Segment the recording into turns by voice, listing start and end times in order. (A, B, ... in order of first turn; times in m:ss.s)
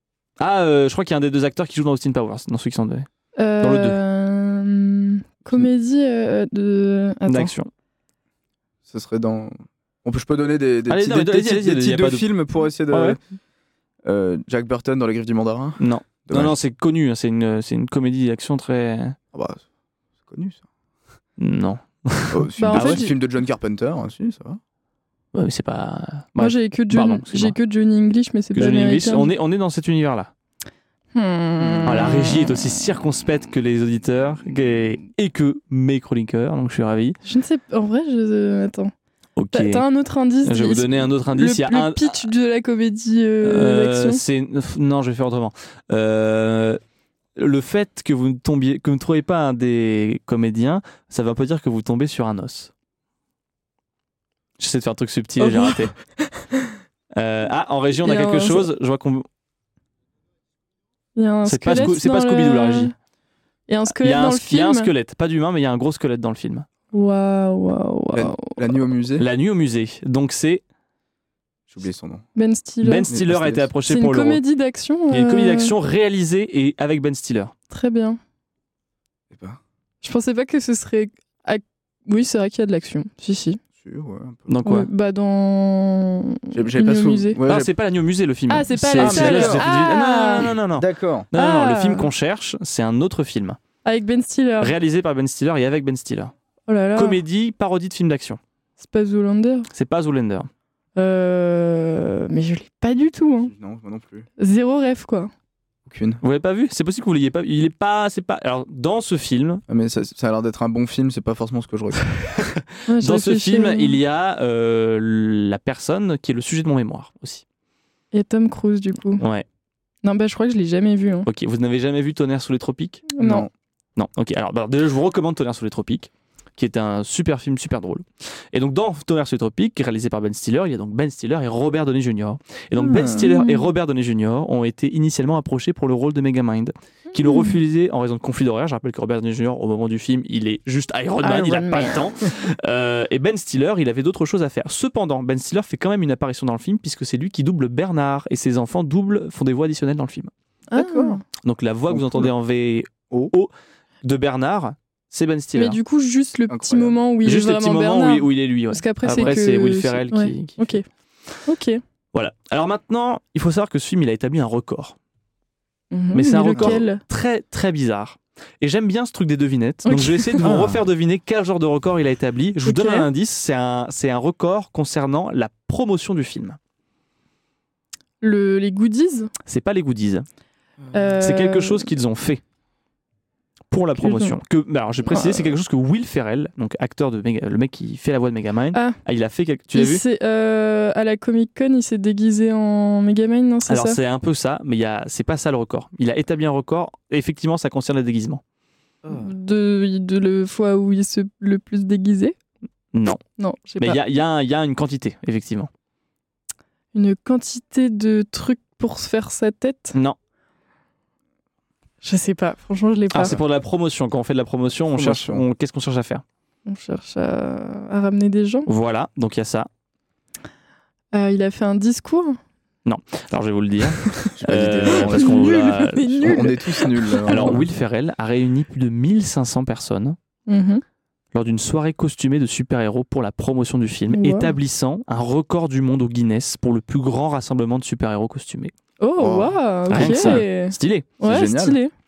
0:00.4-0:03.1 A
0:03.4-0:07.5 B
0:03.6-0:04.0 A
0:07.3-0:07.7 A
0:08.9-0:13.2 C
0:10.9-0:12.3 A
0:12.9-0:13.2 A
0:14.0-0:16.6 C
0:15.8-0:19.2 A
0:19.3-0:19.6 C
0:20.2-0:20.6 C
0:21.4-0:23.1 A
0:22.3-0:24.6 C
0:22.6-0:23.1 B
0:25.3-0:27.6 A
0:26.4-0:29.3 B
0:28.5-0:30.3 A
0:31.1-0:32.6 B
0:31.6-0:32.1 C
0:31.8-0:37.2 A
0:37.3-0:38.9 B
0:39.4-0:39.8 A
0:39.5-0:44.2 B
0:40.4-0:42.3 A
0:43.4-0:46.8 A
0:47.4-0:52.7 A
0:54.6-0:55.9 A
0:55.4-0:55.9 B
0:57.2-0:59.3 A
0:58.0-0:58.7 B
1:01.2-1:02.9 B
1:01.4-1:02.9 A
1:03.7-1:04.9 B
1:04.0-1:06.7 A
1:06.9-1:08.6 B
1:08.1-1:09.3 C
1:09.2-1:10.6 A
1:11.7-1:12.2 C
1:12.4-1:13.1 B
1:12.8-1:14.4 A
1:13.1-1:13.7 C
1:13.9-1:15.7 B
1:15.1-1:17.5 A
1:17.7-1:18.2 B
1:19.3-1:19.6 C
1:20.0-1:23.6 B
1:23.8-1:24.5 C
1:24.5-1:24.9 A
1:24.6-1:27.4 B
1:26.5-1:27.7 C
1:27.5-1:33.6 A
1:28.5-1:30.5 B
1:29.0-1:29.7 C
1:30.7-1:31.3 C
1:31.4-1:32.1 B
1:33.8-1:34.7 B
1:34.6-1:36.3 A
1:36.7-1:37.2 B
1:37.0-1:38.4 A
1:38.8-1:39.7 B
1:39.7-1:40.5 A
1:41.0-1:43.5 B
1:43.4-1:44.3 C
1:44.4-1:45.3 B
1:45.9-1:46.2 C
1:46.2-1:49.6 A
1:49.7-1:52.1 C
1:52.4-1:57.4 A
1:52.9-1:54.0 B
1:58.1-1:59.2 B
1:59.2-1:59.5 A
2:00.0-2:01.3 B
2:01.2-2:03.1 A
2:03.1-2:03.5 B
2:03.2-2:03.5 C
2:04.0-2:30.3 A
2:12.8-2:13.3 C
2:12.9-2:13.7 B
2:17.1-2:17.6 B
2:21.2-2:22.2 B
2:30.7-2:31.2 B
2:30.7-2:31.2 C
2:31.4-2:33.5 A
2:31.9-2:32.3 C
2:34.0-2:35.8 A
2:35.6-2:40.8 B
2:36.5-2:37.0 C
2:37.2-2:40.8 A
2:41.5-2:41.8 B
2:42.1-2:45.0 A
2:45.9-2:47.0 B
2:46.1-2:56.6 A
2:46.4-2:46.8 C
2:49.9-2:50.4 B
2:50.4-2:50.8 C
2:52.6-2:53.1 B
2:58.2-2:59.3 B
2:59.5-3:00.3 A
3:00.9-3:01.9 B
3:01.2-3:02.4 A
3:03.7-3:10.0 A
3:04.0-3:04.4 B
3:05.1-3:05.6 B
3:08.7-3:09.0 B
3:09.7-3:14.0 B
3:13.7-3:18.4 A
3:19.0-3:19.3 C
3:19.1-3:22.4 B
3:22.9-3:23.2 A
3:23.4-3:24.0 B
3:23.8-3:25.7 A
3:26.9-3:30.0 B
3:32.0-3:33.4 B
3:33.1-3:36.2 A
3:35.0-3:35.4 C
3:36.7-3:38.7 B
3:38.7-3:39.7 A
3:41.1-3:42.4 B
3:42.9-3:46.4 A
3:44.4-3:45.6 C
3:44.9-3:47.6 B
3:46.2-3:47.6 C
3:47.3-3:50.2 A
3:50.5-3:50.8 B
3:51.3-3:58.7 A
3:54.1-3:54.5 B
3:59.0-4:01.9 B
3:59.2-4:00.4 C
3:59.9-4:01.1 A
4:01.2-4:01.8 C